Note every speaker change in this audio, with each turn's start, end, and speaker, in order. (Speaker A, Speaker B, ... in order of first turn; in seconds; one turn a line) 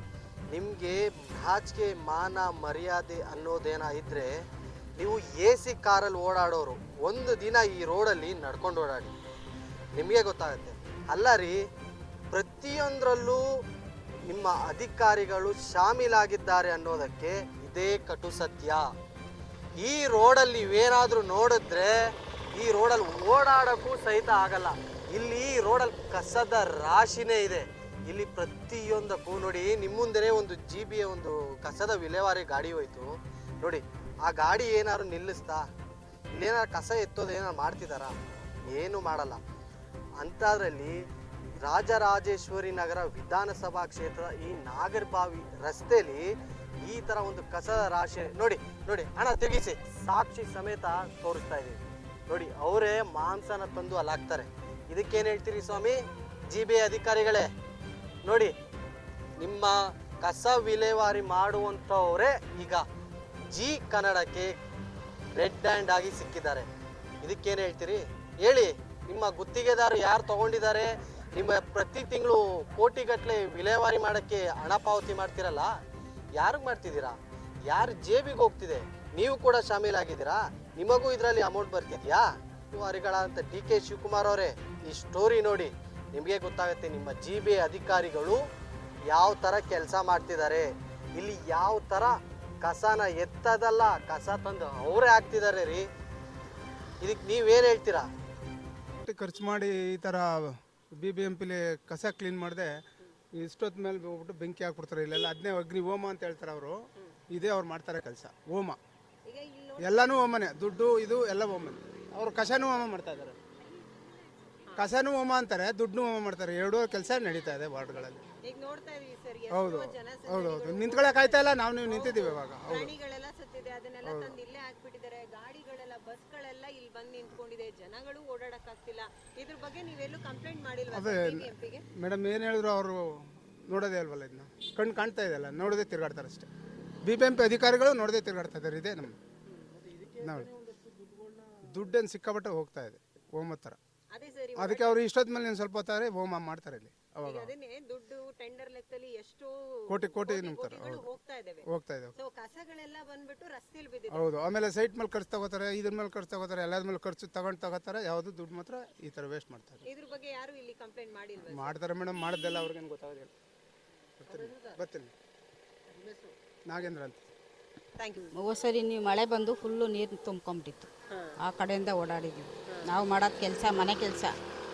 Speaker A: 0.5-4.4
Speaker A: 5.0-9.1
Speaker A: 10.0-11.6
Speaker A: 12.3-13.4
Speaker A: 14.3-18.9
Speaker A: 19.8-35.7
Speaker A: 36.4-38.1
Speaker A: 38.7-39.4
Speaker A: 40.2-41.0
Speaker A: 41.6-46.3
Speaker A: 46.8-57.5
Speaker A: 58.2-58.5
Speaker A: 59.4-62.9
Speaker A: 63.5-64.6
Speaker A: 65.3-66.7
Speaker A: 67.2-75.7
Speaker A: 76.4-77.2
Speaker A: 77.7-88.4
Speaker A: 89.1-95.9
Speaker A: 97.0-98.1
Speaker B: 99.0-102.8
Speaker B: 103.3-108.8
Speaker C: 109.3-110.2
Speaker B: 109.8-113.4
Speaker C: 114.6-114.9
Speaker B: 114.8-118.2
Speaker C: 118.4-131.9
Speaker B: 119.5-122.9
Speaker B: 124.0-124.4
Speaker B: 130.9-136.5
Speaker B: 137.0-139.2
Speaker B: 140.2-140.5
Speaker B: 141.6-143.8
Speaker C: 144.1-145.0
Speaker B: 144.6-147.5
Speaker C: 147.2-154.3
Speaker B: 149.9-151.1
Speaker B: 151.7-152.1
Speaker B: 154.1-159.9
Speaker C: 159.8-161.8
Speaker B: 161.5-163.3
Speaker C: 164.2-164.8
Speaker B: 164.2-165.1
Speaker C: 165.9-166.4
Speaker B: 166.7-167.3
Speaker C: 168.0-168.3
Speaker D: 168.3-174.4
Speaker C: 171.1-171.4
Speaker C: 172.7-172.9